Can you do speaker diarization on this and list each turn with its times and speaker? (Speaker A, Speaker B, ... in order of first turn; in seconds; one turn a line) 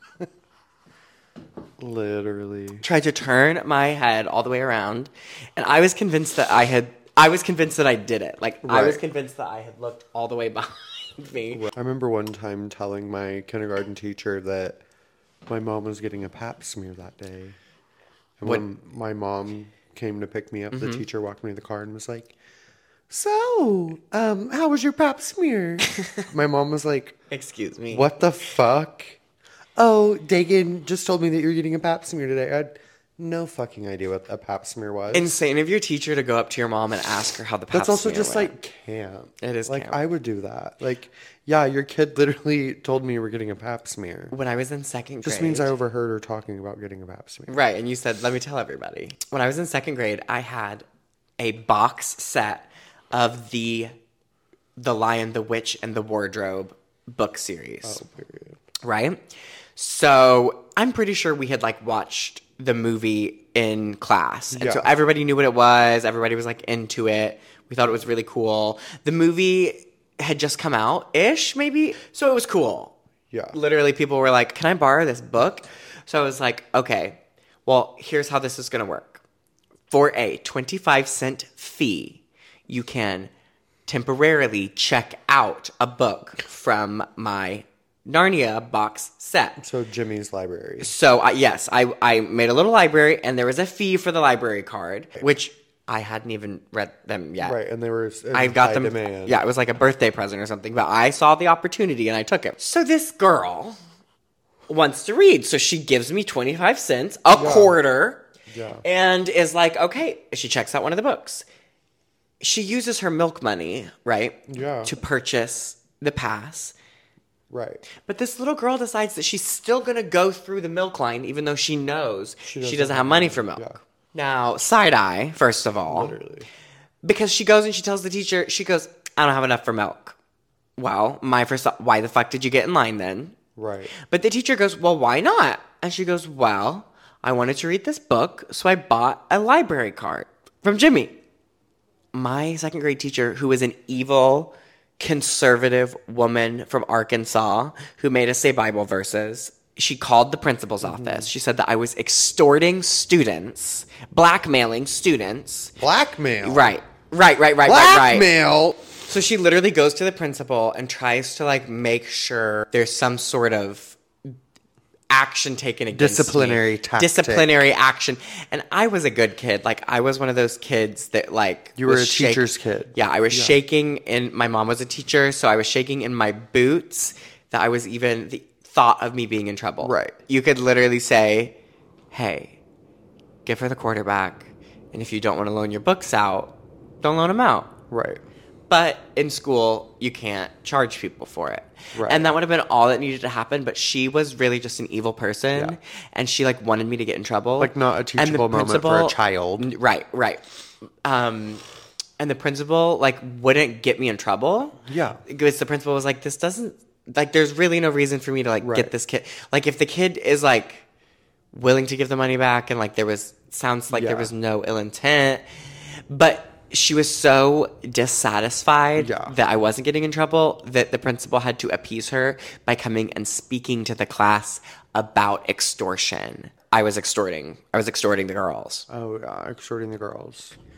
Speaker A: 1.8-2.9
Speaker B: 2.8-11.7
Speaker A: 8.6-9.0
Speaker A: 11.5-14.8
Speaker A: 15.5-17.6
Speaker A: 18.4-22.3
Speaker B: 20.7-21.0
Speaker A: 23.1-27.2
Speaker B: 26.0-26.3
Speaker B: 27.3-28.1
Speaker A: 27.9-29.2
Speaker A: 29.8-35.3
Speaker B: 35.1-38.5
Speaker A: 37.7-44.3
Speaker B: 39.4-40.0
Speaker B: 44.3-45.7
Speaker A: 45.2-47.6
Speaker B: 47.5-50.9
Speaker B: 51.4-53.9
Speaker B: 54.8-58.0
Speaker A: 57.8-58.6
Speaker B: 58.8-59.2
Speaker B: 59.8-73.0
Speaker A: 64.5-64.9
Speaker A: 73.3-73.6
Speaker B: 73.5-79.2
Speaker B: 79.9-83.3
Speaker B: 83.9-89.6
Speaker A: 89.6-90.9
Speaker B: 90.8-97.6
Speaker A: 97.4-99.4
Speaker B: 98.3-103.8
Speaker B: 104.7-108.2
Speaker A: 107.3-107.8
Speaker A: 108.5-108.8
Speaker B: 108.8-111.5
Speaker B: 112.4-116.7
Speaker A: 114.5-114.9
Speaker A: 117.5-117.8
Speaker B: 118.0-126.2
Speaker A: 122.5-123.8
Speaker A: 125.9-126.5
Speaker B: 127.0-130.2
Speaker B: 130.8-133.4
Speaker A: 133.6-133.9
Speaker B: 133.9-141.2
Speaker B: 142.1-155.7
Speaker A: 150.8-151.3
Speaker A: 155.8-156.7
Speaker B: 156.4-158.3
Speaker A: 157.6-158.8
Speaker B: 159.1-164.3
Speaker B: 165.1-181.5
Speaker A: 165.9-167.5
Speaker A: 171.8-173.6
Speaker A: 179.8-180.2
Speaker B: 182.1-182.6
Speaker B: 183.5-187.7
Speaker A: 187.9-188.2
Speaker B: 188.7-200.4
Speaker A: 191.9-192.3
Speaker A: 197.6-199.7
Speaker B: 201.0-201.6
Speaker B: 202.2-210.8
Speaker A: 204.8-205.2
Speaker A: 208.6-208.9
Speaker B: 211.5-215.4
Speaker A: 213.9-214.3
Speaker B: 216.1-228.9
Speaker A: 219.0-219.3
Speaker A: 228.9-230.5